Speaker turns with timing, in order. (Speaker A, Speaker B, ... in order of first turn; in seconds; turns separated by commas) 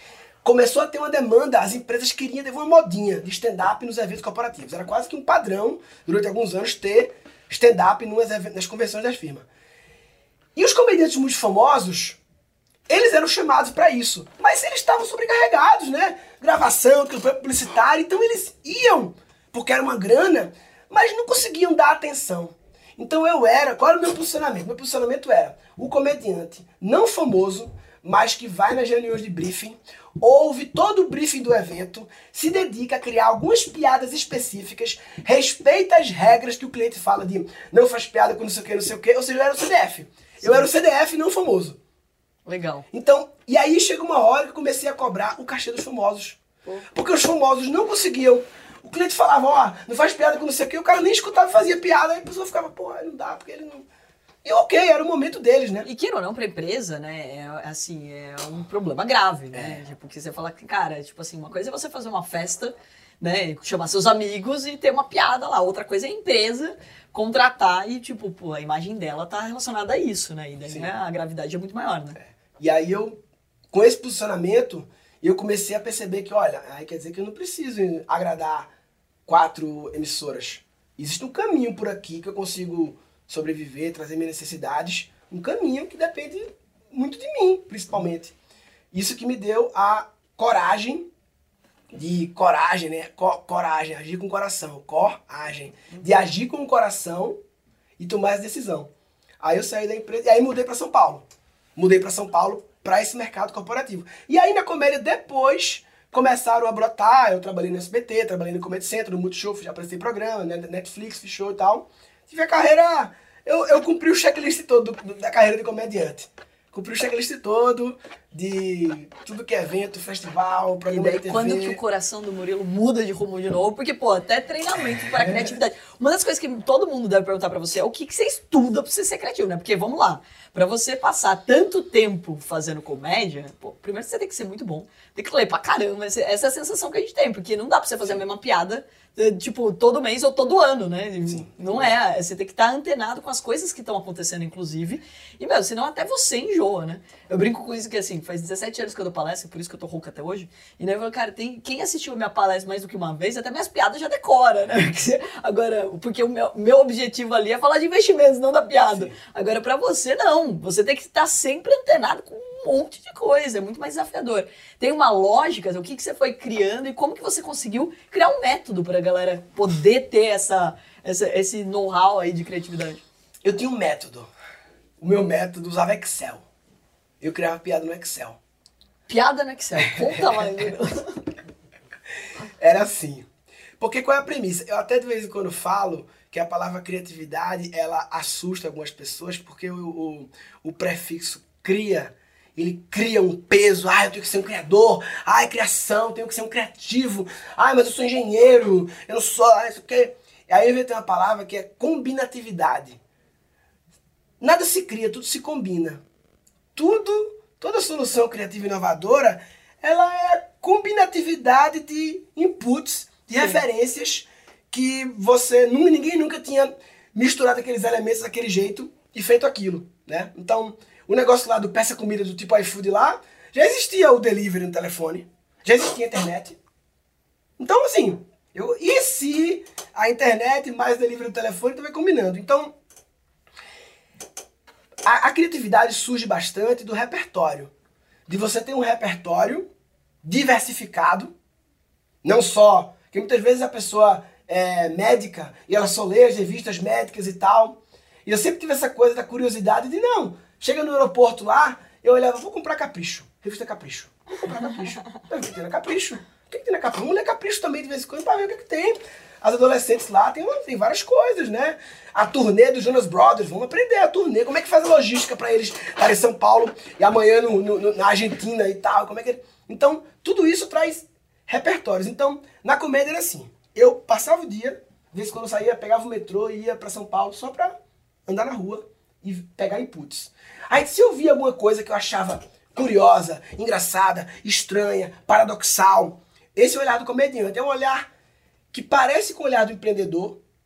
Speaker A: 0.4-9.5, Speaker A: 10.5-12.2, Speaker A: 12.9-41.8, Speaker B: 40.4-40.7, Speaker B: 42.5-42.9, Speaker A: 42.9-46.4, Speaker A: 46.9-53.9, Speaker A: 54.4-55.9, Speaker B: 55.8-72.2, Speaker A: 59.5-59.8, Speaker A: 72.2-73.2, Speaker A: 73.7-78.7, Speaker A: 79.3-88.3, Speaker A: 88.9-91.1, Speaker A: 91.9-97.4, Speaker B: 95.9-96.2, Speaker A: 98.0-121.8, Speaker B: 120.9-173.0, Speaker A: 125.2-125.6, Speaker A: 141.2-141.9, Speaker A: 158.9-159.2, Speaker A: 173.4-174.3, Speaker A: 175.0-176.4, Speaker A: 177.2-178.4, Speaker B: 179.1-181.2, Speaker A: 179.8-180.6, Speaker A: 182.6-183.3, Speaker A: 183.8-203.0, Speaker A: 204.4-206.0, Speaker A: 206.7-226.6, Speaker A: 227.6-232.8, Speaker A: 235.0-237.7, Speaker A: 238.3-239.7, Speaker A: 240.2-241.3, Speaker A: 242.2-288.1, Speaker A: 288.7-290.4